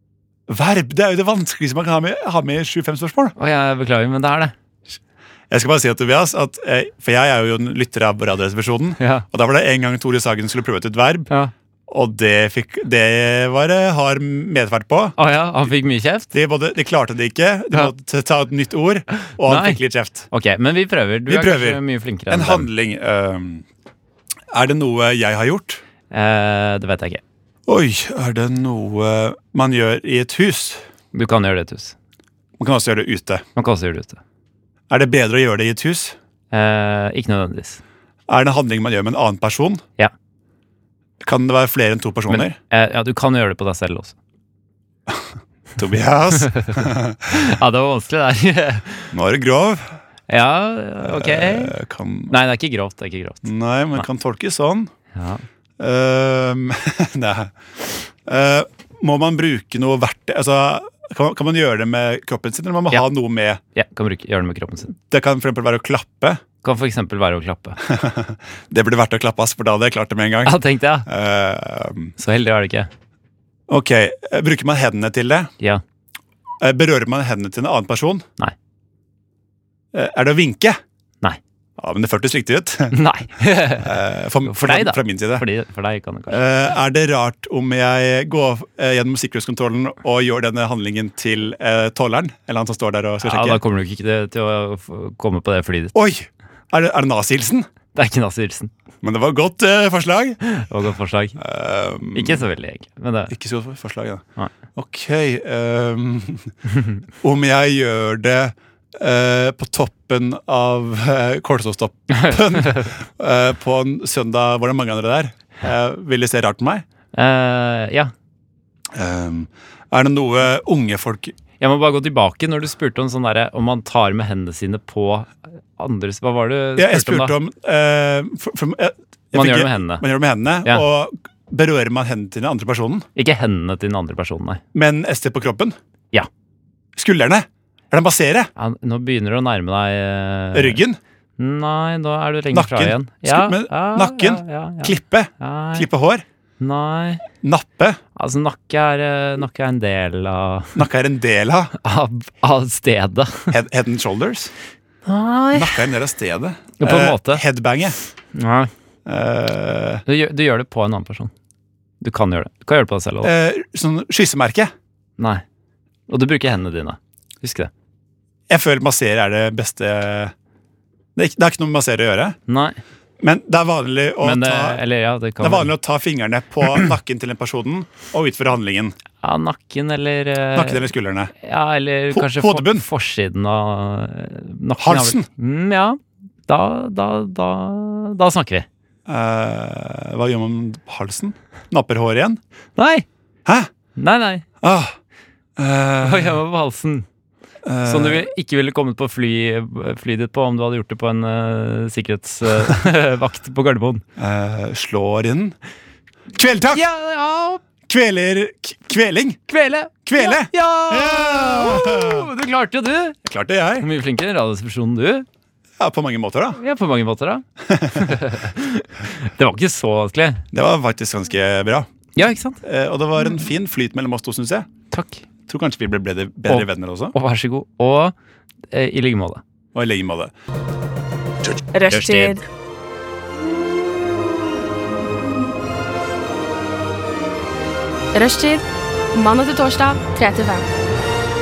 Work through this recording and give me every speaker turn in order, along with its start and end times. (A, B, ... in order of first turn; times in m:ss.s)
0:00.5-0:03.4 A
0:03.4-0:04.5 B
0:05.5-0:11.3 A
0:09.0-0:09.3 B
0:11.9-0:15.2 A
0:15.2-0:16.3 B
0:16.3-0:20.3 A
0:19.2-0:19.8 B
0:20.3-0:22.7 B
0:21.3-0:23.7 A
0:24.5-0:25.8 A
0:26.1-0:27.2 B
0:27.7-0:30.8 A
0:31.1-0:32.0 B
0:32.6-0:33.4 A
0:33.6-0:34.2 B
0:34.9-0:36.2 A
0:36.5-0:37.8 B
0:38.3-0:39.8 A
0:41.2-0:42.6 A
0:42.3-0:44.2 B
0:45.8-0:47.4 A
0:46.4-0:49.1 B
0:49.1-0:49.9 A
0:50.3-0:51.8 B
0:51.0-0:52.4 A
0:52.3-0:54.0 B
0:53.4-0:54.9 A
0:55.1-0:55.4 B
0:55.8-0:57.5 A
0:58.2-1:03.6 A
1:03.8-1:05.0 B
1:05.1-1:06.4 A
1:06.6-1:07.8 B
1:07.8-1:12.2 A
1:10.4-1:11.1 B
1:12.2-1:12.9 B
1:13.7-1:15.5 A
1:16.6-1:18.3 A
1:19.9-1:20.8 A
1:21.8-1:23.0 A
1:22.9-1:26.4 B
1:23.8-1:25.5 A
1:26.3-1:33.6 A
1:33.2-1:35.9 B
1:36.0-1:37.7 A
1:37.9-1:38.7 B
1:39.0-1:40.4 A
1:40.4-1:41.4 B
1:41.4-1:42.5 A
1:42.2-1:43.3 B
1:43.3-1:46.5 A
1:47.2-1:56.8 A
1:52.1-1:52.9 B
1:57.2-1:58.1 B
1:58.9-2:01.4 A
2:01.6-2:07.4 B
2:06.8-2:13.1 A
2:09.3-2:10.0 B
2:13.2-2:14.6 B
2:14.7-2:15.8 A
2:17.0-2:18.5 A
2:18.6-2:20.8 B
2:20.5-2:21.0 A
2:21.4-2:25.9 B
2:22.5-2:26.2 A
2:26.6-2:27.2 B
2:27.4-2:28.0 A
2:28.2-2:30.8 B
2:30.8-2:31.7 A
2:31.8-2:33.6 B
2:33.5-2:34.5 A
2:35.1-2:35.9 B
2:35.5-2:38.0 A
2:36.8-2:37.4 B
2:38.4-2:38.7 B
2:39.1-2:40.0 A
2:40.1-2:41.3 B
2:42.0-2:43.3 B
2:43.2-2:44.7 A
2:45.2-2:45.4 B
2:46.1-2:47.7 B
2:48.5-2:50.3 A
2:51.2-2:52.4 A
2:52.5-2:52.8 B
2:53.2-2:54.8 A
2:54.2-2:55.7 B
2:55.4-2:59.0 A
2:59.2-3:08.7 B
3:00.5-3:01.3 A
3:02.1-3:02.9 A
3:04.8-3:05.3 A
3:09.1-3:12.4 A
3:12.8-3:13.1 B
3:14.0-3:14.4 B
3:14.6-3:15.0 A
3:15.6-3:16.4 A
3:16.0-3:17.1 B
3:17.6-3:18.3 A
3:17.8-3:24.0 B
3:24.2-3:25.6 A
3:26.3-3:26.8 A
3:26.7-3:27.6 B
3:27.9-3:29.4 A
3:29.5-3:33.2 B
3:30.1-3:32.3 A
3:33.2-3:33.9 A
3:33.8-3:35.3 B
3:35.8-3:36.6 A
3:36.6-3:40.4 B
3:37.7-3:38.2 A
3:40.5-3:41.9 A
3:42.2-3:42.6 B
3:42.6-3:44.7 A
3:44.9-3:45.2 B
3:45.5-3:47.2 A
3:46.5-3:48.2 B
3:48.7-3:49.4 B
3:49.7-3:50.3 A
3:51.7-3:52.4 C
3:51.9-3:52.4 B
3:58.1-4:00.6 C